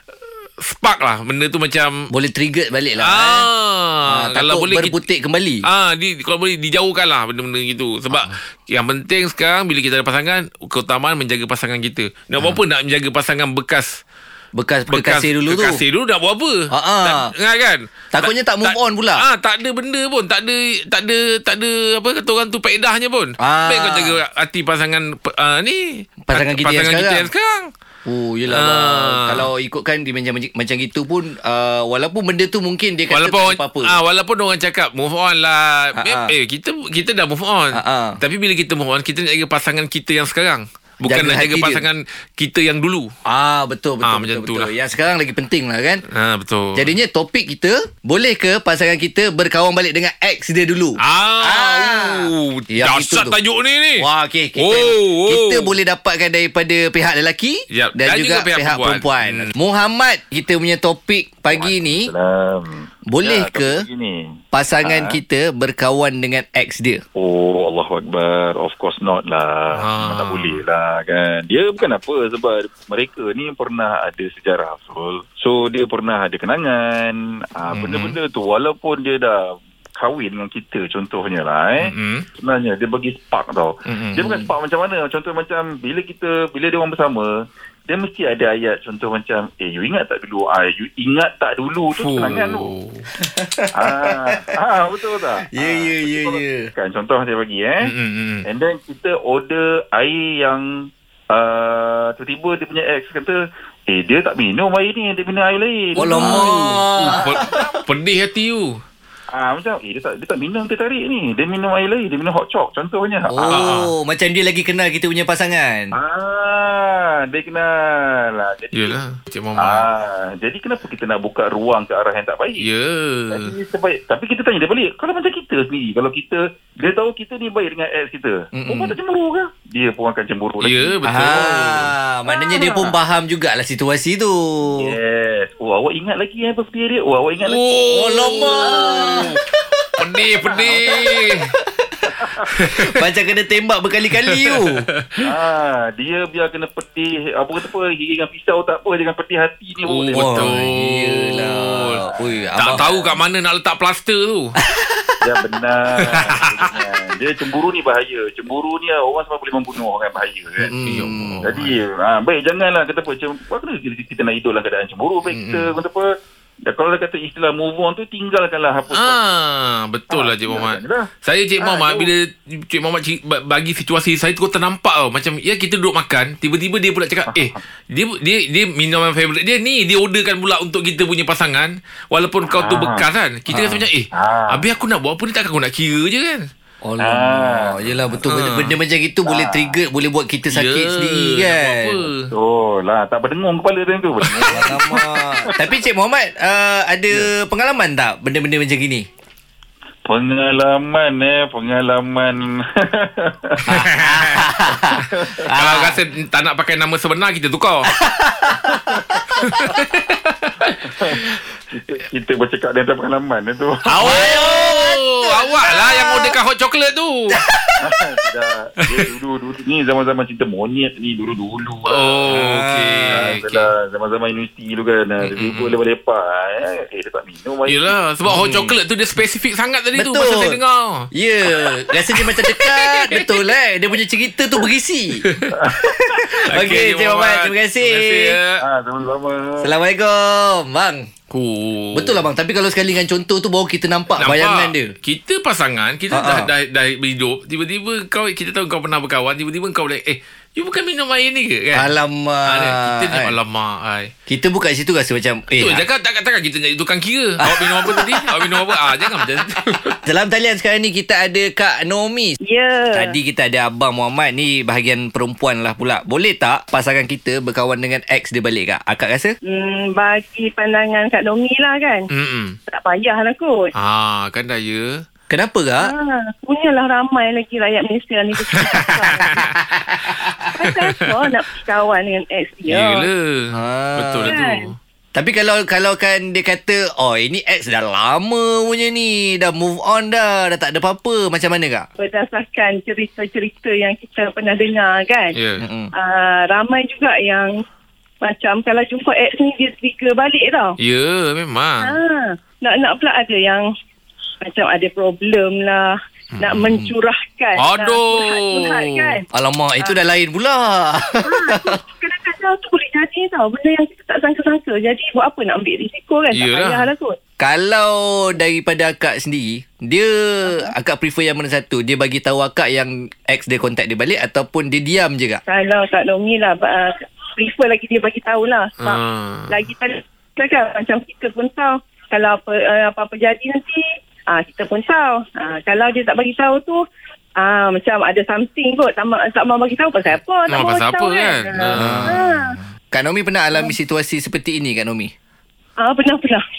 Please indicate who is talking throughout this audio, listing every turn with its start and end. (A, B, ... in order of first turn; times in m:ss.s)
0:00.6-0:02.1 A
0:02.1-0:03.5 B
0:03.0-0:04.9 A
0:04.0-0:05.6 B
0:05.6-0:14.0 A
0:14.6-0:15.8 B
0:14.9-0:27.7 A
0:16.7-0:17.3 B
0:18.1-0:19.2 B
0:23.4-0:24.2 B
0:26.2-0:27.3 B
0:28.0-0:34.0 B
0:28.5-0:29.5 A
0:33.1-0:43.1 A
0:36.0-0:36.3 B
0:37.7-0:38.2 B
0:41.0-0:41.8 B
0:43.3-0:46.0 B
0:44.0-0:44.7 A
0:46.1-0:46.9 A
0:46.8-0:53.4 B
0:51.0-0:54.0 A
0:54.0-1:02.1 B
0:54.6-0:55.7 A
0:57.7-0:59.5 A
1:01.5-1:04.2 C
1:03.1-1:03.8 B
1:04.5-1:07.0 B
1:04.8-1:05.2 C
1:07.2-1:27.3 C
1:09.7-1:10.6 A
1:17.7-1:18.2 A
1:21.8-1:22.2 A
1:23.9-1:24.4 A
1:27.9-1:32.7 C
1:32.0-1:33.1 A
1:33.2-1:34.4 B
1:33.7-1:37.9 C
1:35.5-1:36.7 B
1:37.8-1:38.4 A
1:38.4-1:40.7 C
1:41.3-1:47.8 C
1:46.0-1:47.6 B
1:46.0-1:48.8 A
1:49.3-1:53.6 C
1:53.3-1:55.9 B
1:53.5-1:53.9 A
1:55.9-1:59.0 C
1:58.7-1:59.8 A
1:59.6-2:02.7 C
2:02.6-2:03.5 A
2:03.3-2:10.9 C
2:08.5-2:09.0 B
2:10.6-2:11.9 A
2:11.0-2:15.0 B
2:14.8-2:19.4 C
2:17.4-2:19.2 A
2:17.9-2:19.3 B
2:20.0-2:21.5 A
2:20.5-2:21.2 C
2:22.2-2:22.5 C
2:22.5-2:22.9 A
2:22.8-2:24.8 B
2:24.2-2:25.2 A
2:25.2-2:30.5 C
2:29.8-2:32.0 A
2:30.1-2:33.0 B
2:31.8-2:33.1 C
2:32.6-2:34.6 A
2:34.7-2:35.1 B
2:35.2-2:40.7 C
2:36.0-2:36.7 A
2:40.6-2:41.4 B
2:40.8-2:41.7 A
2:41.4-2:46.1 C
2:45.3-2:45.7 A
2:46.7-2:49.2 C
2:48.9-3:06.5 A
2:50.1-2:51.1 C
2:51.6-2:52.1 C
3:02.5-3:03.0 C
3:03.5-3:03.9 B
3:04.1-3:04.6 C
3:06.8-3:12.0 B
3:07.0-3:07.8 C
3:08.2-3:08.7 A
3:09.3-3:09.7 C
3:10.5-3:12.3 A
3:12.3-3:15.5 C
3:14.2-3:14.8 A
3:14.5-3:19.1 B
3:20.1-3:23.7 C
3:23.7-3:26.0 B
3:23.7-3:24.5 A
3:25.1-3:25.5 C
3:25.6-3:27.9 A
3:27.9-3:29.6 B
3:29.4-3:30.7 A
3:30.8-3:34.3 C
3:33.9-3:36.4 B
3:33.9-3:37.4 A
3:37.3-3:38.0 B
3:37.8-3:42.4 C
3:41.9-3:43.7 A
3:42.3-3:43.3 B
3:43.1-3:47.9 C
3:45.2-3:45.7 A
3:47.7-3:51.1 A
3:48.3-3:48.7 B
3:50.0-3:50.6 B
3:51.1-3:55.2 B
3:51.6-3:53.4 A
3:55.2-3:55.5 A
3:55.5-3:56.2 C
3:55.8-3:58.4 B
3:56.5-3:58.6 A
3:58.6-3:59.7 C
3:59.6-4:01.1 B
4:01.3-4:02.2 A
4:01.9-4:04.9 B
4:04.2-4:11.9 A
4:06.1-4:06.5 B
4:11.7-4:13.3 B
4:12.4-4:14.1 A
4:14.3-4:15.8 B
4:15.6-4:20.0 A
4:17.4-4:18.8 B
4:20.0-4:22.4 B
4:22.4-4:23.1 D
4:22.9-4:29.4 B
4:29.5-4:32.0 D
4:32.1-4:32.6 A
4:32.7-4:33.7 D
4:33.8-4:35.0 A
4:35.3-4:35.9 B
4:35.8-4:39.4 D
4:38.5-4:39.4 A
4:39.2-4:40.5 B
4:40.5-4:43.1 D
4:40.7-4:41.1 A
4:42.7-4:44.8 A
4:43.5-4:44.3 B
4:44.2-4:44.6 D
4:45.1-4:51.9 B
4:52.0-4:55.4 D
4:55.3-4:55.7 A
4:55.6-4:55.9 B
4:56.0-4:57.5 D
4:58.2-5:00.8 D
5:00.8-5:02.0 A
5:01.8-5:03.6 D
5:04.4-5:09.2 D
5:06.4-5:06.8 A
5:07.6-5:09.2 A
5:09.3-5:11.8 B
5:11.2-5:17.2 D
5:16.3-5:16.9 A
5:17.4-5:25.4 B
5:25.5-5:36.8 D
5:28.8-5:29.5 A
5:37.4-5:42.6 D
5:40.5-5:42.3 A
5:41.8-5:42.2 B
5:42.9-5:45.1 B
5:45.8-5:46.4 D